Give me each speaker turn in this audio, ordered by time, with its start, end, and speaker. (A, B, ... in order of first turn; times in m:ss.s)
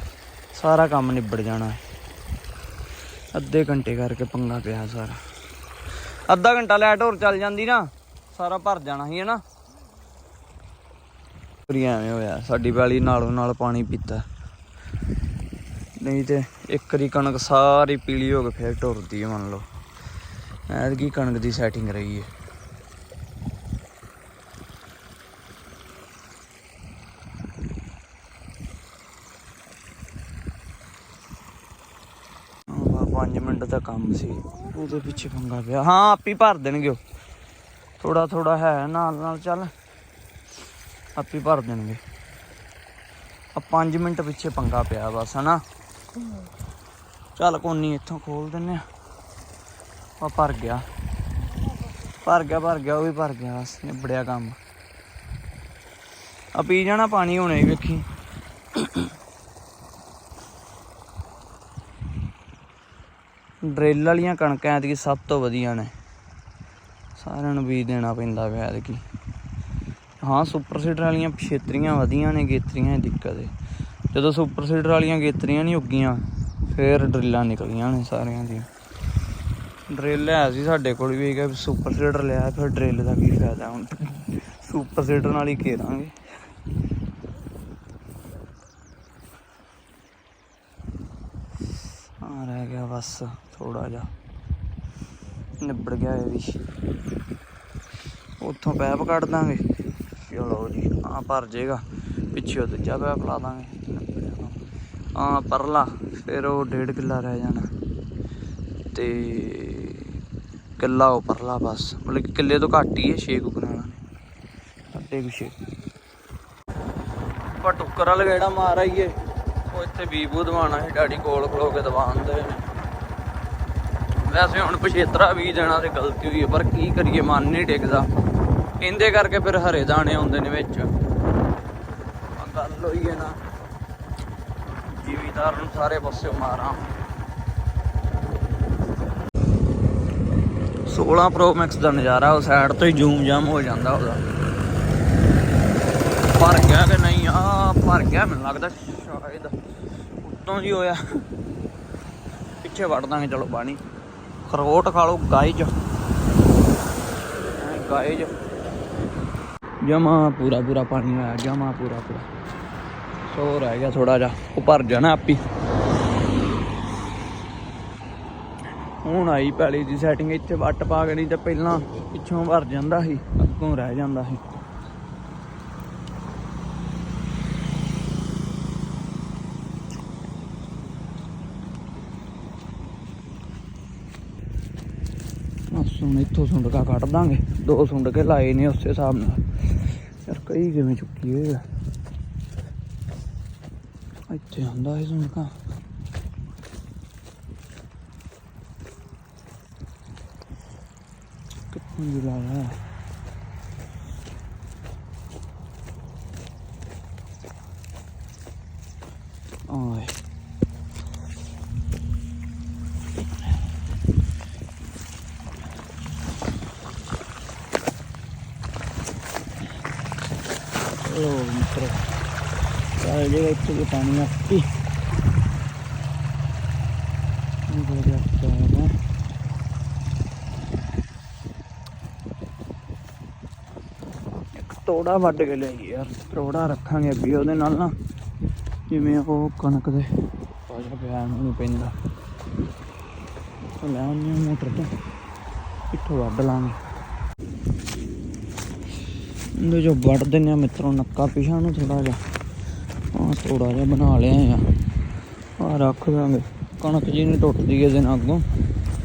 0:00.5-0:01.8 A
0:03.3-0:05.2 A
0:06.1-0:09.4 A
0:11.7-0:14.2 A
0:16.0-0:19.7 A
0:20.7-0:22.3 A
0:32.7-0:37.0 A
0:38.0-0:39.7 A
0:41.2-0:42.0 A
0:43.6-0:45.6 A
0:47.4-0:48.8 A
0:50.2-0:50.9 A
0:52.1-0:54.6 A
0:56.6-0:58.1 A
0:58.7-0:59.1 A
1:03.6-1:05.9 A
1:07.2-1:09.0 A
1:10.2-1:13.5 A
1:14.1-1:18.7 A
1:19.9-1:26.2 A
1:32.2-1:34.1 A
1:35.6-1:36.6 A
1:38.4-1:44.6 A
1:45.2-1:47.7 A
1:48.9-1:50.2 A
1:50.8-1:54.0 A
1:54.9-1:55.6 A
1:57.6-1:59.2 A
1:59.7-2:02.6 A
2:04.2-2:08.1 A
2:08.8-2:10.9 A
2:12.4-2:13.4 A
2:14.9-2:16.8 A
2:20.9-2:24.2 A
2:26.2-2:29.6 A
2:30.2-2:31.2 A
2:32.6-2:33.8 A
2:34.5-2:35.7 A
2:37.6-2:38.3 A
2:39.8-2:42.3 A
2:43.3-2:45.4 A
2:48.9-2:54.4 A
3:05.7-3:11.6 A
3:14.3-3:15.5 A
3:21.7-3:22.8 A
3:29.7-3:30.1 A
3:41.0-3:42.1 A
3:42.9-3:44.7 A
3:47.7-3:49.0 A
3:54.5-3:57.9 A
3:58.9-4:01.9 A
4:03.8-4:04.9 A
4:05.9-4:06.8 A
4:09.5-4:12.2 A
4:13.1-4:14.7 A
4:15.6-4:18.4 A